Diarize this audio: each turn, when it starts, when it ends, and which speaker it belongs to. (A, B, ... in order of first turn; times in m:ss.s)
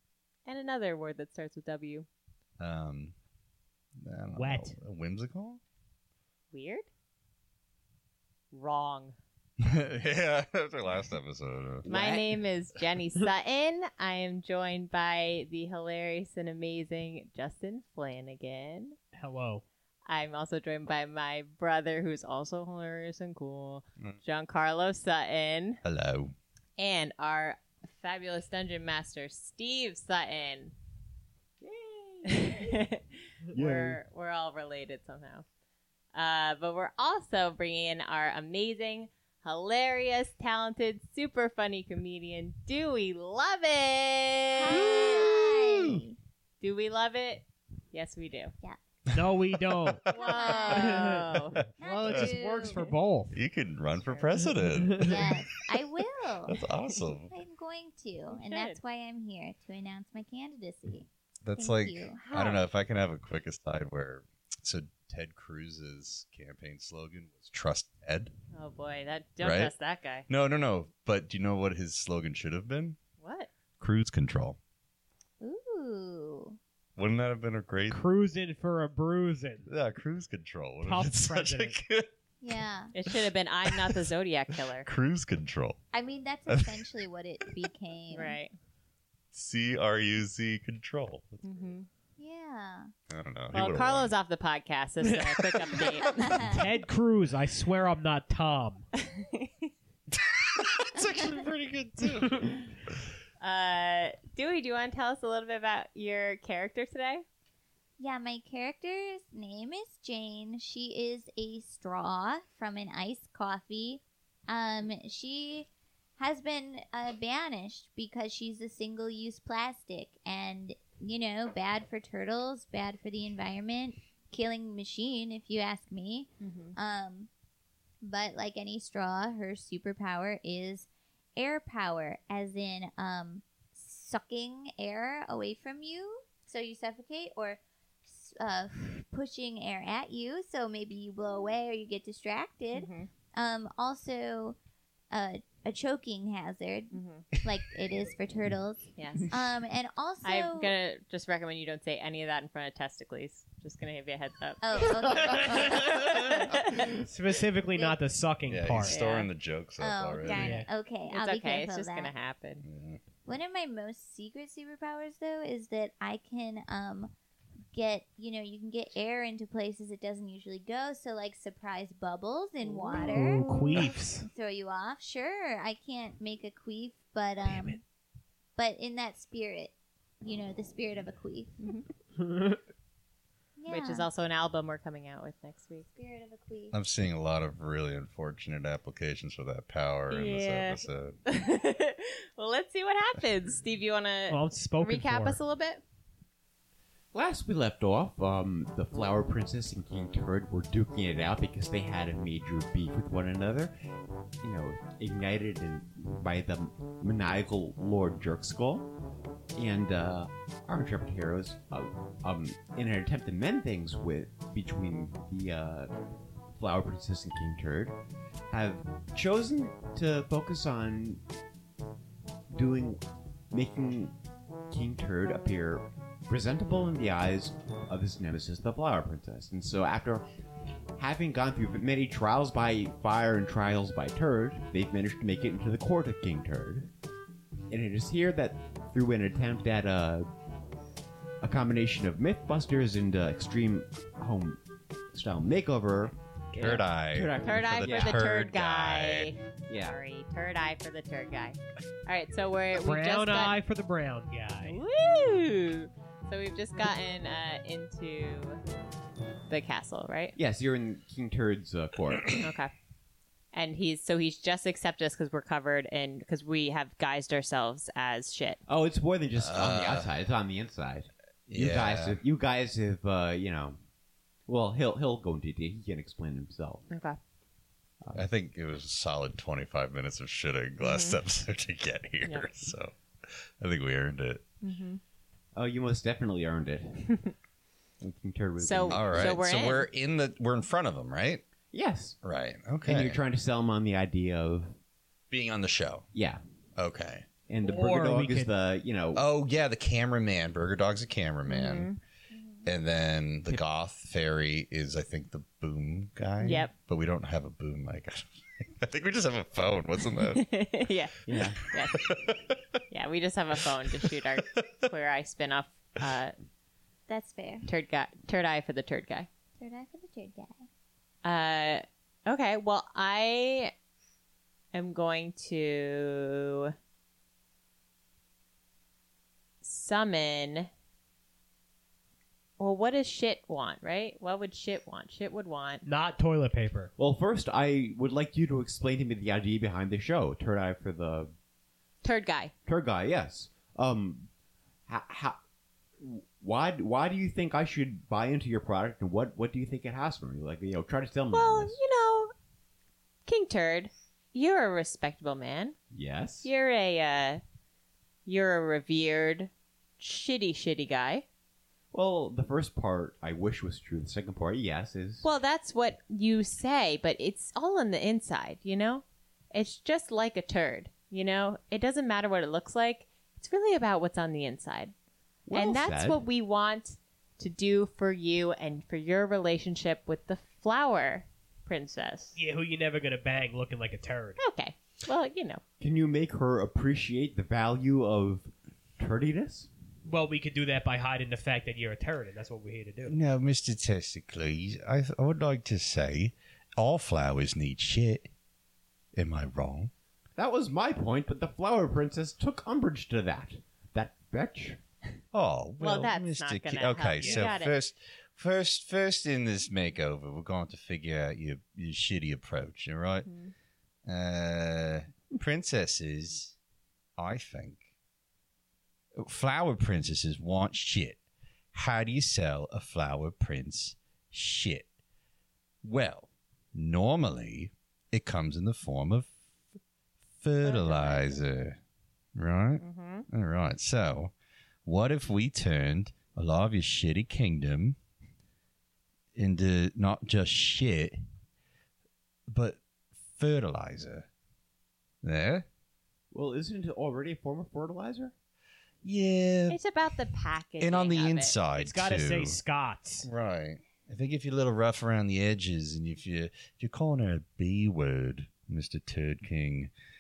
0:00.5-0:02.1 A
0:02.6-0:03.1 B
0:04.0-0:05.6 B
0:04.4-0:04.8 C
0:06.5-0:06.9 A
0:08.5-0:09.2 A
0:09.6-0:12.2 B
0:11.9-0:12.2 D
0:11.9-0:19.0 A
0:19.1-0:19.6 C
0:20.1-0:25.8 A
0:25.8-0:26.4 B
0:26.8-0:30.7 A
0:31.6-0:32.8 D
0:32.2-0:35.4 A
0:33.5-0:34.0 D
0:36.1-0:45.2 A
0:44.6-0:46.2 E
0:44.8-0:46.0 B
0:46.6-0:48.5 A
0:49.1-0:50.1 B
0:49.1-0:50.1 C
0:50.1-0:51.6 A
0:50.1-0:51.2 E
0:50.7-0:53.4 C
0:51.6-0:52.4 B
0:51.8-0:52.8 E
0:53.3-0:55.4 B
0:54.0-0:54.3 A
0:54.6-0:55.3 C
0:55.0-0:56.6 E
0:56.5-0:57.4 B
0:57.3-1:02.2 E
0:58.3-0:58.8 A
1:01.4-1:08.3 B
1:02.2-1:02.7 A
1:08.5-1:10.3 A
1:09.4-1:09.7 B
1:10.3-1:13.0 B
1:13.2-1:13.5 A
1:13.8-1:14.6 B
1:15.4-1:16.6 E
1:17.0-1:18.0 B
1:17.9-1:19.7 C
1:19.7-1:22.1 B
1:20.8-1:21.8 C
1:22.4-1:22.9 E
1:22.9-1:24.9 A
1:23.1-1:25.8 B
1:25.9-1:28.4 E
1:26.5-1:26.9 B
1:28.1-1:28.5 A
1:29.3-1:31.5 B
1:31.4-1:31.9 A
1:32.2-1:32.9 E
1:33.1-1:34.2 B
1:33.5-1:36.5 A
1:36.0-1:36.7 E
1:36.4-1:38.8 C
1:39.0-1:39.7 A
1:40.1-1:42.7 B
1:43.4-1:47.2 A
1:48.0-2:07.3 E
2:06.4-2:06.8 A
2:08.0-2:24.6 E
2:22.7-2:23.1 A
2:25.1-2:30.8 E
2:26.9-2:27.3 A
2:29.0-2:29.3 A
2:30.2-2:36.9 A
2:34.6-2:36.0 E
2:36.0-2:36.4 B
2:37.0-2:39.0 C
2:38.5-2:40.6 B
2:38.9-2:39.3 A
2:39.8-2:42.1 E
2:40.3-2:40.7 C
2:41.1-2:42.7 A
2:42.6-2:43.0 B
2:43.2-2:47.1 E
2:47.7-2:57.8 E
2:52.6-2:53.1 A
2:52.9-2:54.3 C
2:57.4-2:57.8 C
2:58.6-3:01.6 E
3:01.6-3:01.9 A
3:02.2-3:02.6 C
3:03.6-3:04.1 E
3:03.7-3:05.9 A
3:06.0-3:06.8 E
3:06.7-3:11.2 B
3:10.1-3:15.8 A
3:14.3-3:15.4 C
3:17.1-3:23.8 D
3:24.4-3:28.9 D
3:29.6-3:35.9 D
3:36.6-3:38.0 D
3:38.5-3:41.2 D
3:42.5-3:44.2 D
3:44.7-3:50.2 D
3:51.0-3:56.9 D
3:57.7-4:00.3 D
4:01.4-4:04.6 D
4:05.1-4:08.3 D
4:06.6-4:09.3 B
4:07.4-4:13.6 A
4:09.7-4:10.0 D
4:12.8-4:14.8 C
4:14.6-4:18.6 A
4:19.5-4:20.4 A
4:20.4-4:22.4 D
4:22.4-4:22.7 A
4:23.5-4:28.6 A
4:28.7-4:33.8 D
4:29.4-4:30.1 B
4:31.5-4:32.2 B
4:34.5-4:36.9 D
4:36.9-4:37.2 A
4:38.1-4:42.9 B
4:40.8-4:41.2 A
4:43.6-4:44.4 B
4:44.6-4:45.0 A
4:45.6-4:47.2 D
4:48.0-4:49.4 D
4:48.6-4:49.9 A
4:48.9-4:51.4 B
4:51.7-4:52.2 D
4:52.2-4:53.2 B
4:52.8-4:54.8 D
4:55.3-4:56.1 B
4:56.1-4:56.4 D
4:56.8-4:57.3 B
4:57.5-4:59.2 D
4:57.6-4:58.5 C
4:59.2-5:01.9 B
5:01.5-5:02.0 A
5:02.3-5:02.7 E
5:02.6-5:10.7 B
5:06.4-5:06.7 A
5:10.3-5:12.2 A
5:11.3-5:11.6 D
5:12.0-5:12.6 B
5:12.9-5:16.4 A
5:17.1-5:17.7 E
5:17.7-5:19.3 A
5:19.6-5:20.7 E
5:21.2-5:23.7 A
5:24.7-5:26.7 A
5:29.6-5:30.7 A
5:32.6-5:35.8 A
5:35.8-5:36.9 C
5:37.0-5:41.3 D
5:42.0-5:42.5 A
5:42.7-5:44.3 D
5:44.9-5:45.4 D
5:46.0-5:51.8 D
5:51.3-5:52.3 A
5:53.3-5:55.8 A
5:55.9-5:56.5 D
5:56.4-5:57.4 A
5:58.3-6:01.2 A
6:01.9-6:05.2 D
6:05.2-6:14.9 A
6:15.5-6:16.2 D
6:15.5-6:22.4 A
6:22.4-6:24.4 C
6:24.4-6:25.6 A
6:25.8-6:29.7 D
6:30.1-6:33.2 C
6:33.1-6:38.3 B
6:39.1-6:39.9 B
6:40.4-6:44.8 D
6:45.3-6:53.3 B
6:45.8-6:47.8 A
6:47.2-6:47.5 C
6:53.2-6:53.5 A
6:54.0-6:56.6 B
6:57.2-6:57.8 B
6:59.2-7:01.2 B
7:01.7-7:04.9 B
7:05.8-7:09.4 B
7:10.4-7:11.8 B
7:10.6-7:11.4 A
7:12.4-7:14.3 B
7:12.8-7:13.3 A
7:14.8-7:18.0 B
7:19.4-7:21.2 B
7:22.5-7:24.3 B
7:25.2-7:25.6 B
7:26.3-7:28.3 D
7:29.0-7:29.8 B
7:29.7-7:31.6 A
7:30.8-7:32.6 B
7:31.8-7:33.3 C
7:33.2-7:39.9 B